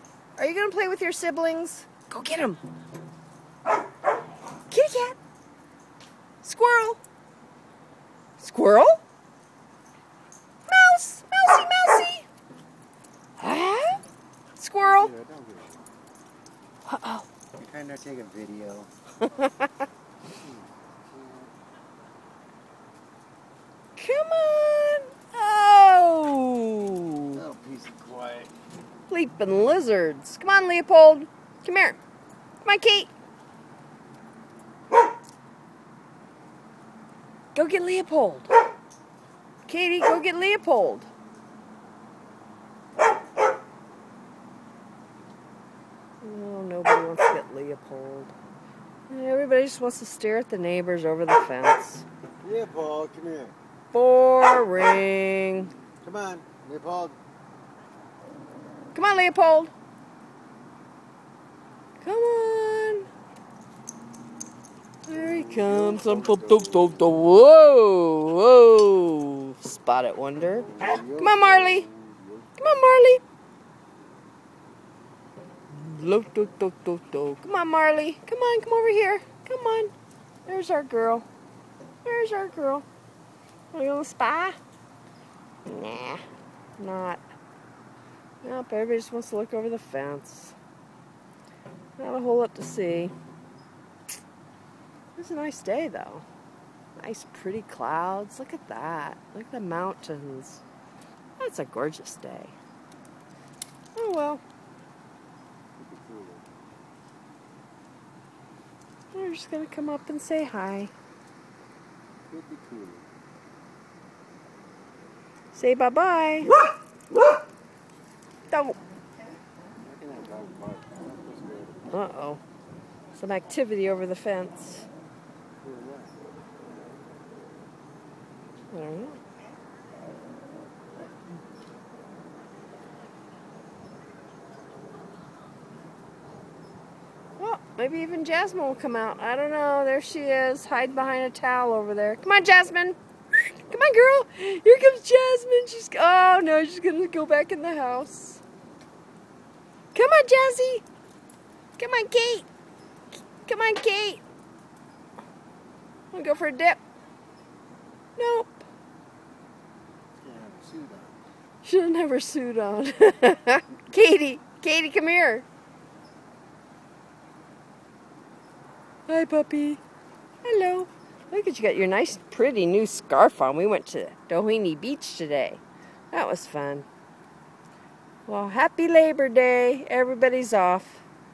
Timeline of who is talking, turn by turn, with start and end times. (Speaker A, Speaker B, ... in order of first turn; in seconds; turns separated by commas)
Speaker A: 0.4-2.6, Speaker A: 4.7-5.2, Speaker A: 6.4-7.0, Speaker A: 8.4-9.0, Speaker A: 10.7-12.2, Speaker A: 13.4-14.0, Speaker A: 14.6-15.1, Speaker B: 14.9-15.9, Speaker A: 16.9-17.2, Speaker B: 17.6-18.9, Speaker A: 19.4-19.7, Speaker B: 20.3-21.5, Speaker A: 23.9-27.4, Speaker B: 27.3-28.5, Speaker A: 29.1-32.0, Speaker A: 32.6-33.1, Speaker A: 37.5-38.5, Speaker A: 39.6-41.1, Speaker A: 46.2-48.3, Speaker A: 49.1-52.1, Speaker B: 52.4-53.5, Speaker A: 53.9-55.7, Speaker B: 56.0-57.2, Speaker A: 58.9-59.7, Speaker A: 62.0-63.1, Speaker A: 65.0-71.8, Speaker B: 65.1-67.1, Speaker B: 70.5-72.5, Speaker A: 72.6-73.2, Speaker A: 75.7-79.9, Speaker A: 80.5-81.2, Speaker A: 82.0-82.8, Speaker A: 83.7-84.6, Speaker A: 85.7-86.2, Speaker A: 86.8-87.2, Speaker A: 88.4-90.5, Speaker A: 92.0-93.1, Speaker A: 95.2-96.2, Speaker A: 97.0-100.6, Speaker A: 101.4-102.5, Speaker A: 103.9-104.4, Speaker B: 105.8-106.5, Speaker A: 109.1-110.9, Speaker B: 112.3-113.1, Speaker A: 115.5-116.5, Speaker A: 118.5-118.8, Speaker B: 119.8-122.0, Speaker A: 121.9-122.4, Speaker A: 123.1-124.9, Speaker B: 125.6-126.1, Speaker A: 128.7-129.2, Speaker A: 137.4-148.4, Speaker A: 149.9-150.8, Speaker A: 151.8-152.5, Speaker A: 153.4-154.2, Speaker A: 156.1-156.8, Speaker A: 158.2-158.7, Speaker B: 160.2-161.2, Speaker A: 161.6-165.4, Speaker A: 169.1-169.8, Speaker A: 170.4-176.9, Speaker A: 178.3-181.0